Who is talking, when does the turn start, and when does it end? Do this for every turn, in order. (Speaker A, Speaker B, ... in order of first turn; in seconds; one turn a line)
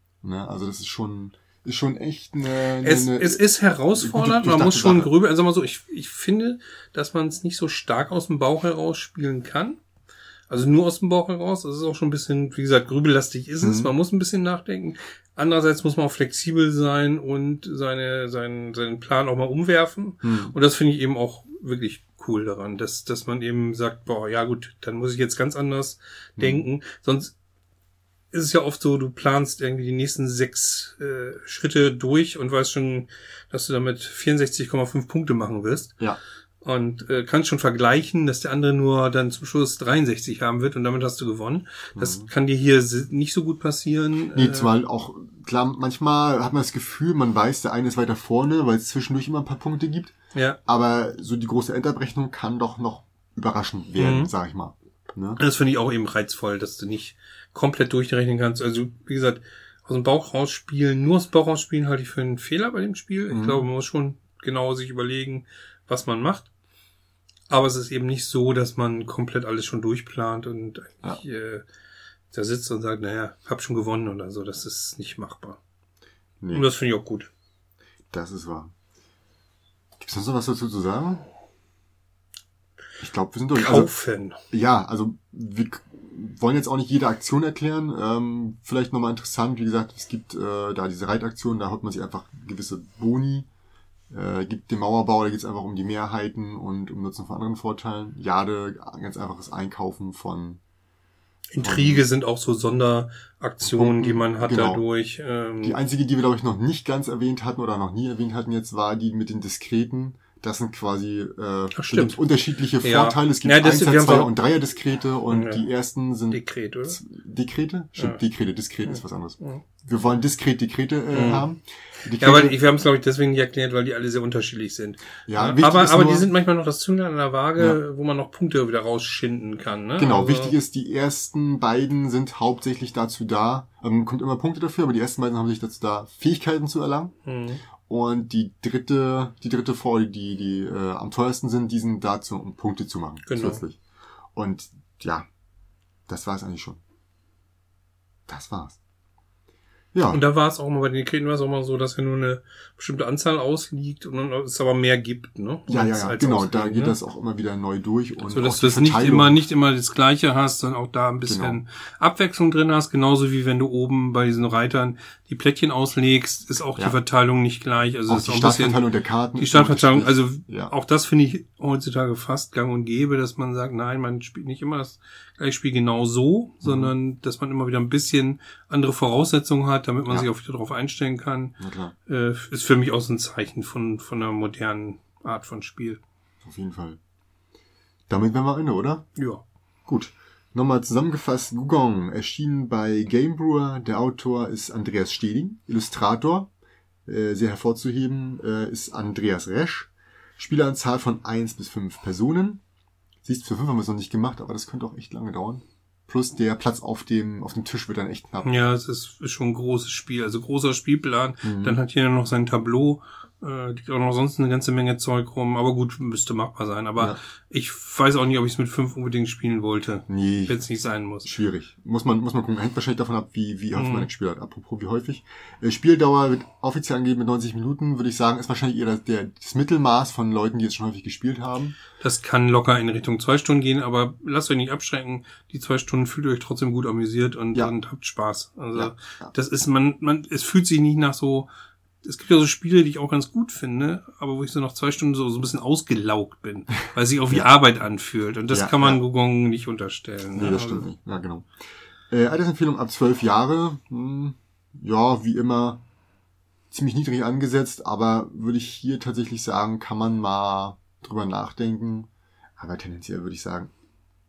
Speaker A: 0.2-3.4
Speaker B: 2.8-9.8
Speaker A: 4.0-5.1
Speaker B: 10.5-27.3
Speaker A: 13.6-13.9
Speaker A: 20.2-20.6
Speaker A: 26.4-26.6
Speaker B: 28.3-36.0
Speaker B: 36.6-44.7
Speaker A: 42.0-42.3
Speaker A: 44.3-50.1
Speaker B: 50.3-50.6
Speaker A: 50.7-55.4
Speaker B: 54.0-54.3
Speaker B: 55.4-66.5
Speaker A: 63.3-63.7
Speaker B: 67.5-71.7
Speaker B: 72.3-75.6
Speaker A: 76.4-76.7
Speaker B: 76.5-77.3
Speaker A: 78.1-78.7
Speaker A: 80.0-81.3
Speaker A: 83.0-83.9
Speaker B: 83.5-84.4
Speaker A: 84.5-93.5
Speaker A: 94.1-100.6
Speaker B: 101.5-105.8
Speaker A: 101.6-102.0
Speaker A: 103.6-104.8
Speaker A: 105.6-122.5
Speaker B: 111.8-112.2
Speaker B: 112.8-114.3
Speaker B: 115.3-115.7
Speaker B: 116.3-117.0
Speaker B: 118.9-119.6
Speaker B: 121.1-121.5
Speaker B: 122.2-130.6
Speaker A: 125.3-126.3
Speaker A: 130.0-137.1
Speaker B: 137.2-137.6
Speaker A: 137.8-143.8
Speaker B: 143.3-143.6
Speaker A: 144.3-145.3
Speaker A: 146.1-146.8
Speaker A: 148.3-148.8
Speaker A: 149.9-150.2
Speaker B: 150.1-157.0
Speaker A: 155.7-159.4
Speaker B: 158.3-168.8
Speaker A: 161.2-161.6
Speaker A: 168.1-170.7
Speaker B: 169.4-186.0
Speaker A: 176.6-176.9
Speaker A: 181.6-181.9
Speaker A: 186.4-187.0
Speaker A: 188.1-189.1
Speaker B: 189.2-189.4
Speaker A: 189.9-196.5
Speaker A: 197.1-202.6
Speaker A: 203.2-208.5
Speaker B: 208.4-221.3
Speaker A: 211.4-211.8
Speaker A: 220.1-220.6
Speaker A: 221.2-231.8
Speaker B: 223.8-224.1
Speaker B: 232.0-241.5
Speaker A: 238.7-239.3
Speaker B: 242.0-250.9
Speaker A: 248.5-249.0
Speaker A: 250.4-251.5
Speaker A: 252.1-255.8
Speaker A: 256.7-263.7